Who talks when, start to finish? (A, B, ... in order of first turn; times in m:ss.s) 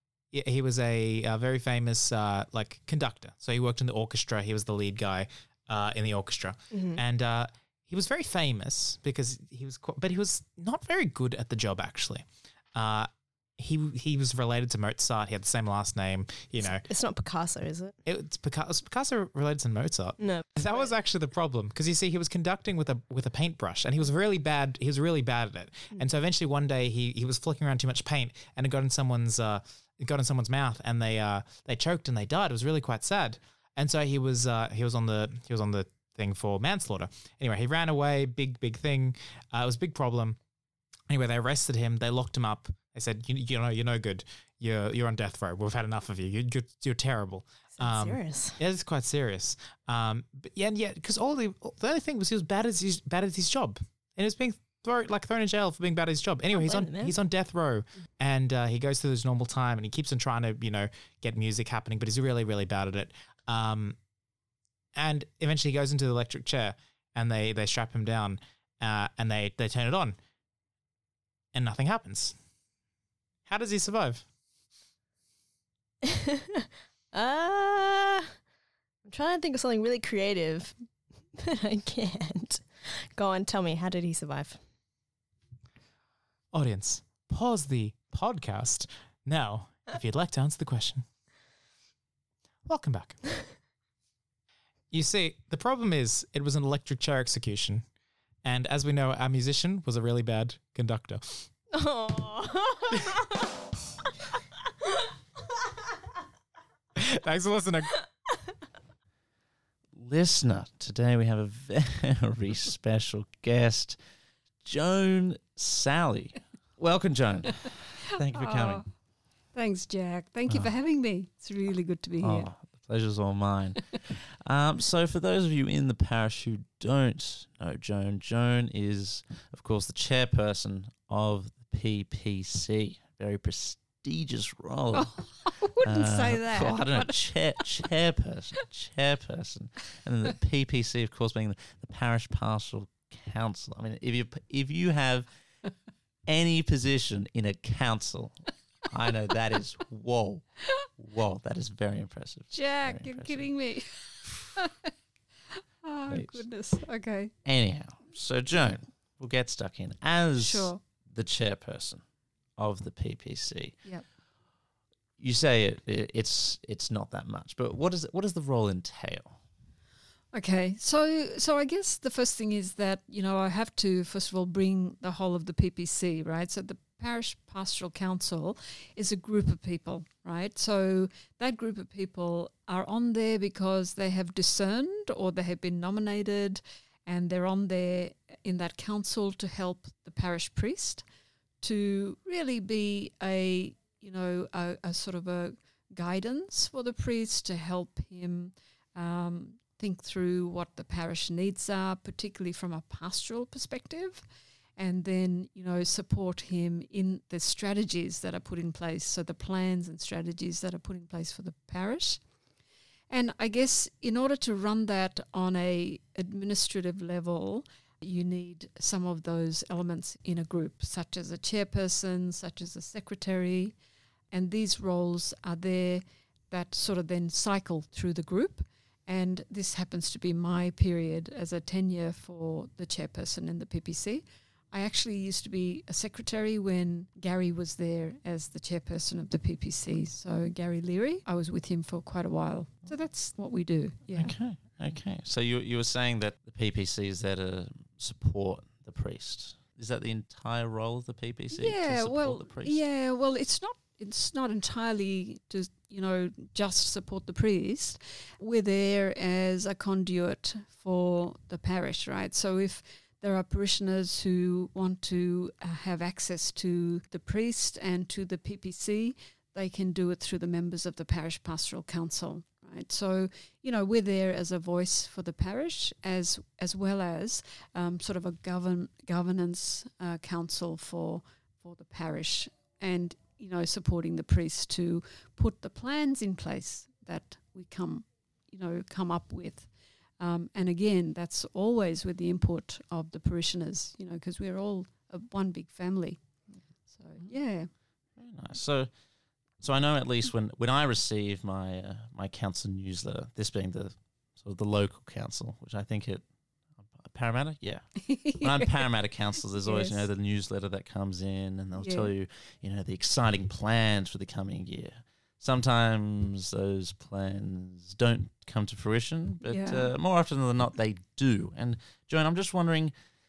0:00.3-0:16.8 A
0:06.7-0:07.0 B
0:16.6-0:18.0 B
0:18.0-0:40.4 A
0:20.2-0:20.9 B
0:41.1-1:04.0 A
0:47.7-0:48.6 B
0:56.5-0:57.2 B
1:05.0-1:10.2 A
1:11.5-1:12.4 A
1:13.5-1:14.2 A
1:17.1-1:18.2 B
1:19.0-1:20.8 B
1:21.4-1:24.6 B
1:26.5-1:31.1 A
1:32.7-1:33.2 A
1:34.9-1:37.8 A
1:38.4-1:41.5 A
1:41.7-1:43.2 B
1:47.0-1:48.0 A
1:50.0-1:54.0 C
1:54.6-1:58.8 C
1:58.3-1:58.9 D
1:59.5-2:02.5 D
2:00.5-2:00.8 C
2:02.2-2:15.2 C
2:14.9-2:17.8 D
2:15.8-2:25.3 C
2:26.3-2:30.5 C
2:31.0-2:33.5 C
2:32.5-2:34.9 D
2:34.2-2:34.5 C
2:35.6-2:37.3 D
2:36.1-2:36.4 C
2:37.4-2:42.0 C
2:40.4-2:40.8 D
2:42.6-2:43.8 C
2:45.2-2:49.4 C
2:50.3-3:11.0 D
3:11.6-3:24.2 D
3:24.8-3:32.2 D
3:33.1-3:43.8 D
3:44.3-4:04.3 D
4:04.1-4:12.8 C
4:11.5-4:56.3 D
4:56.9-4:57.7 D
4:58.2-4:58.9 C
4:59.6-5:07.9 C
5:08.0-5:08.9 D
5:08.4-5:22.9 C
5:09.4-5:10.1 D
5:11.8-5:12.1 D
5:19.5-5:19.9 D